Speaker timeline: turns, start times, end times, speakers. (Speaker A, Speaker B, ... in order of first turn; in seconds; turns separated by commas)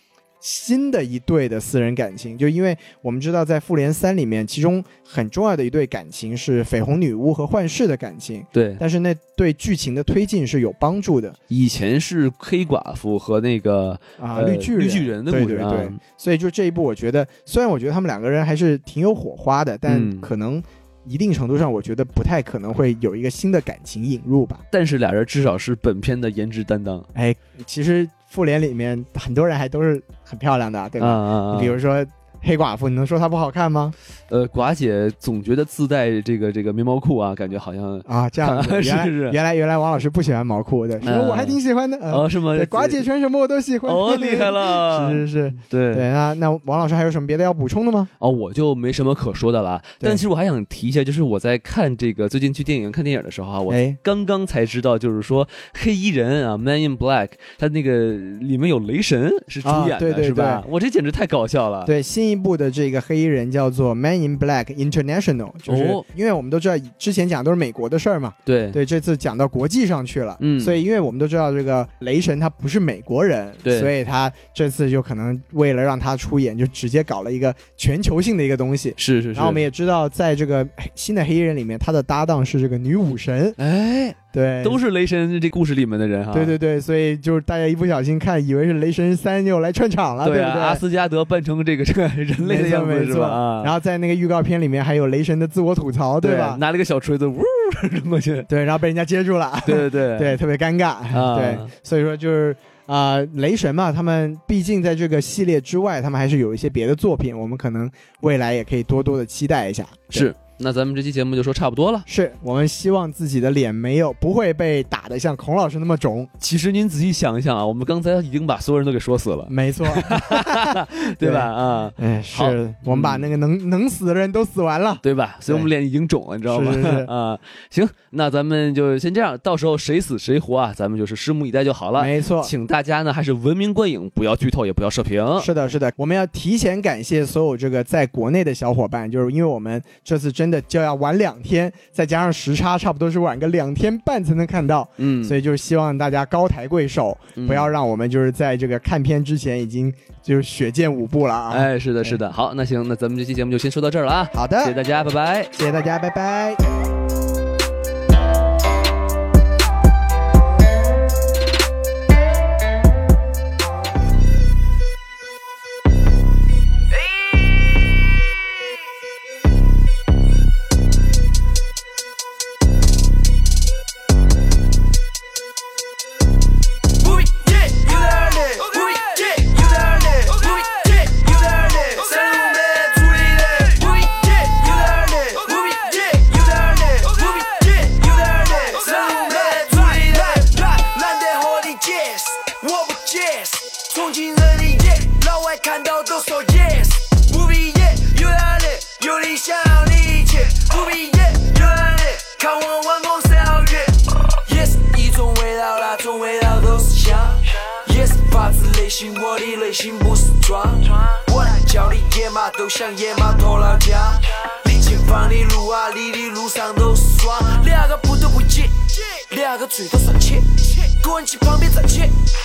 Speaker A: 0.4-11.3, Speaker B: 8.5-8.8, Speaker B: 11.5-16.0, Speaker A: 14.2-24.6, Speaker B: 19.9-20.3, Speaker B: 24.7-27.1, Speaker A: 27.1-34.0, Speaker B: 31.0-31.8, Speaker B: 34.3-39.4, Speaker A: 38.0-48.1, Speaker B: 41.0-43.0, Speaker B: 43.8-46.1, Speaker B: 48.2-61.9, Speaker A: 53.7-54.0, Speaker A: 59.6-60.6, Speaker A: 61.8-83.6, Speaker B: 65.7-66.0, Speaker B: 68.5-68.8, Speaker B: 70.4-70.8, Speaker B: 73.6-73.9, Speaker B: 79.0-79.6, Speaker B: 83.6-86.5, Speaker A: 84.3-84.8, Speaker A: 86.3-90.8, Speaker B: 90.2-93.7, Speaker A: 92.4-96.6, Speaker B: 96.2-98.5, Speaker A: 98.5-110.3, Speaker B: 99.6-100.4, Speaker B: 101.1-101.7, Speaker B: 110.1-112.1, Speaker A: 112.1-116.3, Speaker B: 116.4-123.3, Speaker A: 119.5-125.7, Speaker B: 125.0-135.5, Speaker A: 126.5-127.1, Speaker A: 132.0-132.5, Speaker A: 135.4-152.2, Speaker B: 145.0-145.3, Speaker B: 147.3-147.7, Speaker B: 151.5-155.5, Speaker A: 154.3-154.8, Speaker A: 155.5-156.6, Speaker C: 177.0-222.1